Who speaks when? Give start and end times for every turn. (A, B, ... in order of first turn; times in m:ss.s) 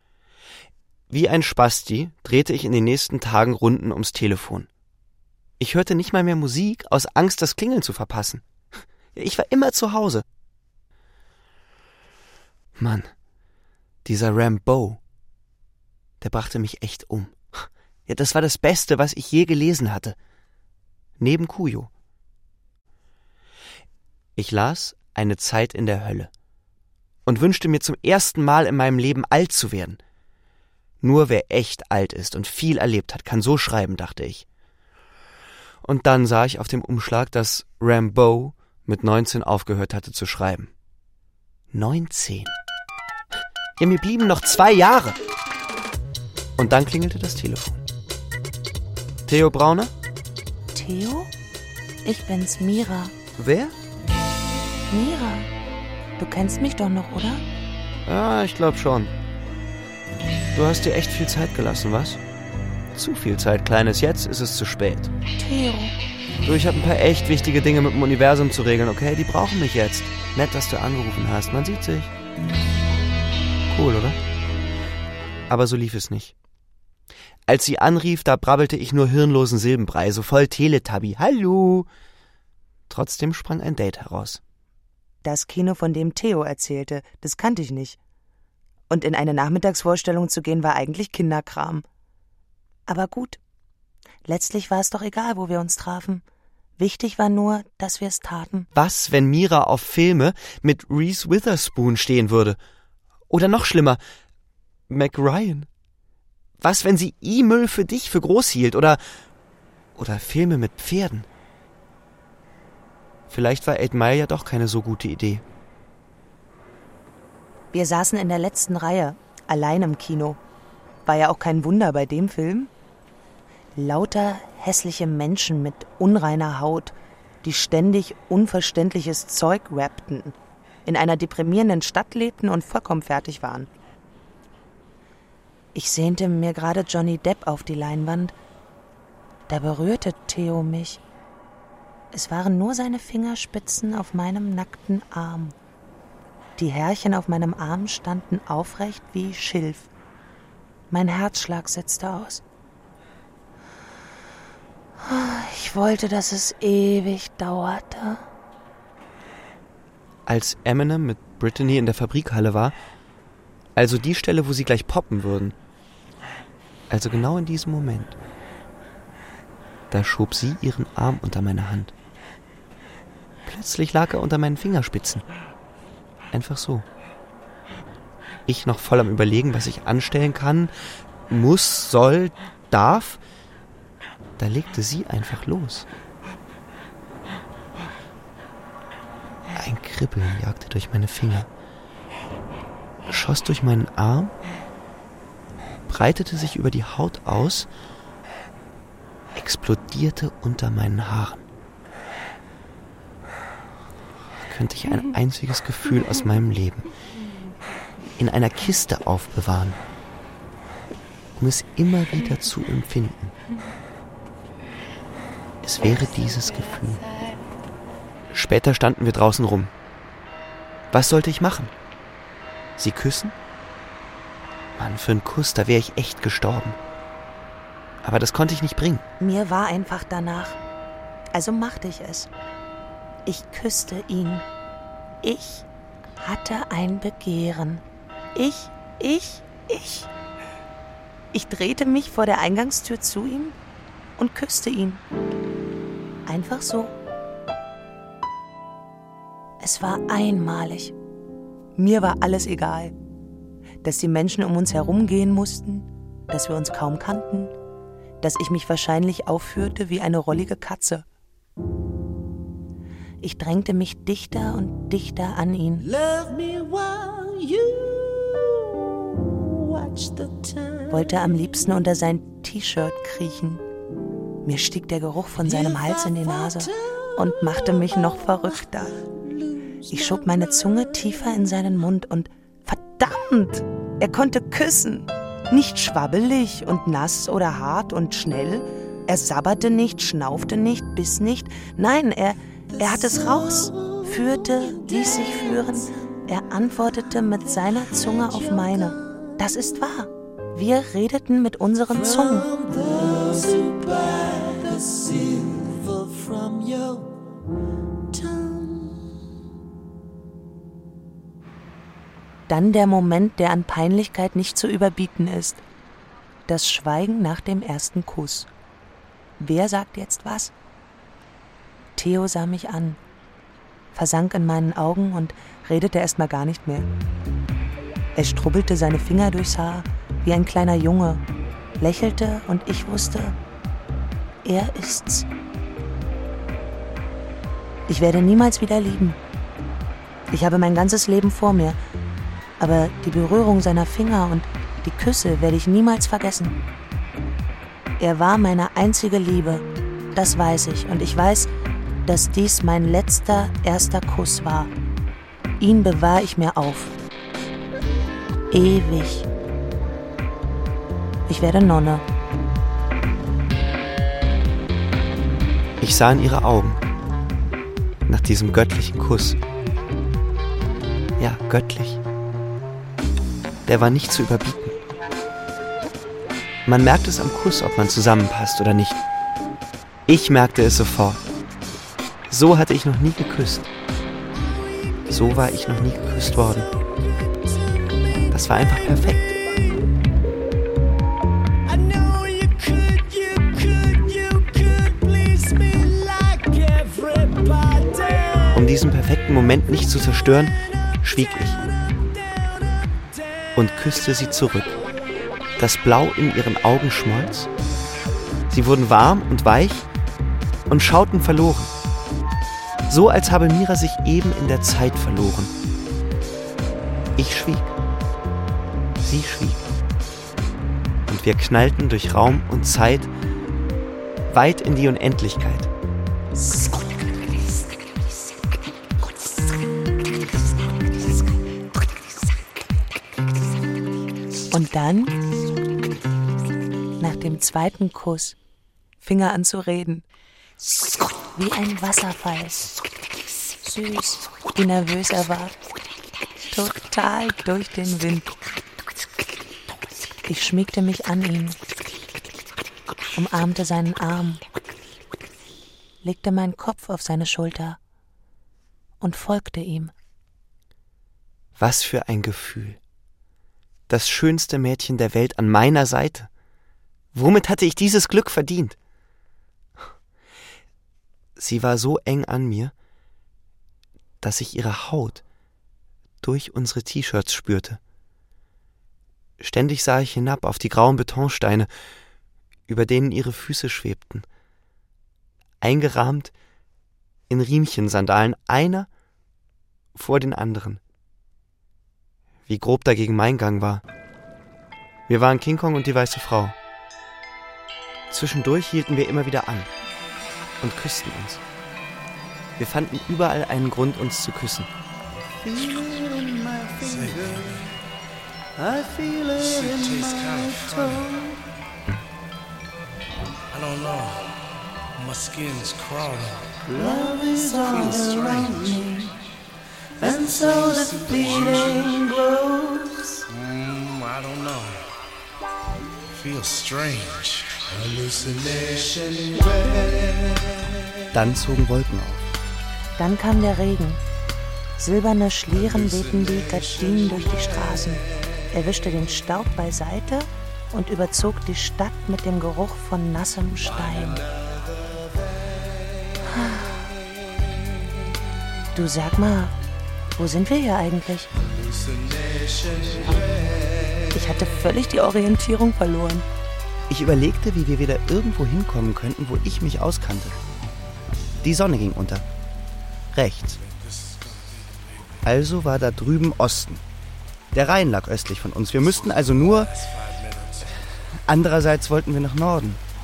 0:01.1-0:04.7 A
0:05.6-0:08.4 A
0:09.1-0:10.2 A
0:12.8-0:13.1 A
0:14.0-0:15.0 A
0:16.2-0:20.2 A
0:21.2-0:21.9 A
0:24.4-0:26.3 A
0:27.3-0:30.0 A
0:31.0-0:34.4 A
0:35.8-0:40.7 A
0:41.7-0:42.5 A
0:43.8-0:45.2 A
0:46.6-0:47.8 A
0:49.3-0:49.9 A
0:50.7-0:51.3 B
0:52.0-0:53.1 B
0:53.4-0:53.8 A
0:54.9-0:55.5 B
0:56.2-0:57.4 B
0:58.0-0:59.1 A
1:00.6-1:02.2 A
1:02.9-1:05.1 A
1:05.4-1:06.0 B
1:06.4-1:12.1 A
1:13.7-1:14.2 A
1:15.5-1:16.3 A
1:17.5-1:21.9 A
1:22.9-1:24.4 A
1:25.2-1:28.0 B
1:28.9-1:31.8 B
1:32.9-1:33.4 B
1:34.3-1:36.2 B
1:36.8-1:38.7 B
1:38.8-1:42.6 A
1:43.3-1:44.0 A
1:44.9-1:45.7 A
1:46.6-1:49.0 A
1:50.0-1:51.3 A
1:53.3-1:55.4 A
1:57.7-2:00.4 B
2:01.1-2:02.7 B
2:03.8-2:10.4 B
2:10.9-2:13.7 B
2:15.8-2:18.3 B
2:19.5-2:21.0 B
2:22.1-2:25.6 B
2:26.6-2:29.9 B
2:30.9-2:32.4 B
2:35.0-2:38.2 B
2:40.3-2:42.8 A
2:43.8-2:45.6 A
2:46.9-2:48.2 A
2:49.9-2:51.9 A
2:53.4-2:55.2 A
2:56.3-2:56.8 A
2:58.5-3:00.7 A
3:01.3-3:03.2 A
3:04.4-3:05.9 A
3:09.5-3:11.5 A
3:13.1-3:14.3 A
3:15.9-3:17.7 A
3:19.3-3:21.4 A
3:24.4-3:26.9 A
3:28.2-3:29.8 A
3:31.4-3:33.4 A
3:35.6-3:37.0 A
3:38.3-3:39.7 A
3:40.9-3:41.7 A
3:42.8-3:43.4 A
3:44.8-3:46.8 A
3:48.0-3:49.0 A
3:49.2-3:50.6 B
3:51.3-3:52.3 B
3:53.3-3:54.4 B
3:55.2-3:55.7 B
3:56.2-3:57.8 B
3:58.4-4:00.1 B
4:01.3-4:03.6 B
4:04.2-4:05.0 B
4:06.3-4:06.9 B
4:09.6-4:10.9 B
4:11.8-4:12.9 B
4:13.8-4:17.5 B
4:18.2-4:21.0 B
4:23.2-4:25.9 B
4:25.8-4:31.6 C
4:30.9-4:33.6 B
4:34.4-4:39.0 B
4:35.4-4:37.8 C
4:39.0-4:40.5 C
4:39.9-5:02.5 B
4:52.8-4:55.9 C
4:57.7-4:59.4 C
5:01.9-5:07.2 C
5:08.1-5:09.0 C
5:12.5-5:15.6 B
5:16.5-5:18.5 B
5:19.4-5:20.5 B
5:22.0-5:23.0 B
5:23.9-5:26.9 B
5:28.2-5:31.2 B
5:31.8-5:33.4 B
5:34.4-5:35.3 B
5:37.9-5:39.2 B
5:40.3-5:41.8 B
5:42.6-5:46.6 B
5:48.0-5:49.6 B
5:50.2-5:51.5 B
5:52.1-5:54.7 B
5:55.6-5:57.0 B
5:58.5-5:59.3 B
6:01.3-6:02.0 B
6:05.8-6:06.8 A
6:08.1-6:09.4 A
6:11.2-6:12.0 A
6:13.7-6:14.8 A
6:16.7-6:19.0 A
6:20.1-6:21.2 A
6:22.3-6:23.7 A
6:25.1-6:26.7 A
6:28.3-6:29.4 A
6:35.6-6:36.2 C
6:37.2-6:38.1 C
6:38.5-6:41.6 A
6:43.6-6:44.8 A
6:45.6-6:47.5 A
6:48.5-6:49.9 A
6:50.7-6:51.7 A
6:52.9-6:55.5 A
6:57.2-6:57.7 A
6:59.0-6:59.7 A
7:01.1-7:03.1 A
7:04.3-7:05.7 A
7:14.5-7:15.2 B
7:17.0-7:18.4 B
7:19.0-7:20.0 B
7:21.4-7:22.8 B
7:23.6-7:25.5 B
7:26.5-7:28.3 B
7:30.3-7:31.6 B
7:33.2-7:34.4 B
7:36.0-7:37.8 B
7:39.0-7:39.9 B
7:41.6-7:42.8 A
7:43.9-7:46.3 A
7:47.1-7:48.8 A
7:51.4-7:52.7 A
7:54.2-7:55.2 A
7:56.2-7:57.8 A
7:59.4-8:01.7 A
8:02.7-8:04.3 A
8:05.6-8:06.3 A
8:07.3-8:08.9 A
8:10.0-8:10.8 A
8:12.5-8:13.8 A
8:15.1-8:16.6 A
8:18.1-8:19.7 A
8:20.6-8:21.4 A
8:22.6-8:24.7 A
8:25.4-8:27.6 C
8:26.8-8:27.7 D
8:28.6-8:31.4 C
8:29.4-8:31.0 D
8:33.5-8:34.3 D
8:35.0-8:36.6 D
8:36.7-8:39.2 C
8:37.7-8:38.8 D
8:40.0-8:43.2 C
8:40.2-8:41.9 D
8:43.3-8:44.9 D
8:46.1-8:49.9 D
8:51.2-8:52.1 A
8:53.0-8:54.0 B
8:54.8-9:04.3 B
9:06.3-9:06.9 B
9:08.7-9:09.5 B
9:10.2-9:11.3 B
9:11.5-9:13.2 D
9:14.1-9:16.3 B
9:16.9-9:20.4 A
9:21.4-9:22.2 A
9:23.1-9:23.6 A
9:23.6-9:25.2 D
9:25.2-9:26.8 A
9:27.5-9:29.6 A
9:29.0-9:30.8 D
9:31.5-9:32.1 A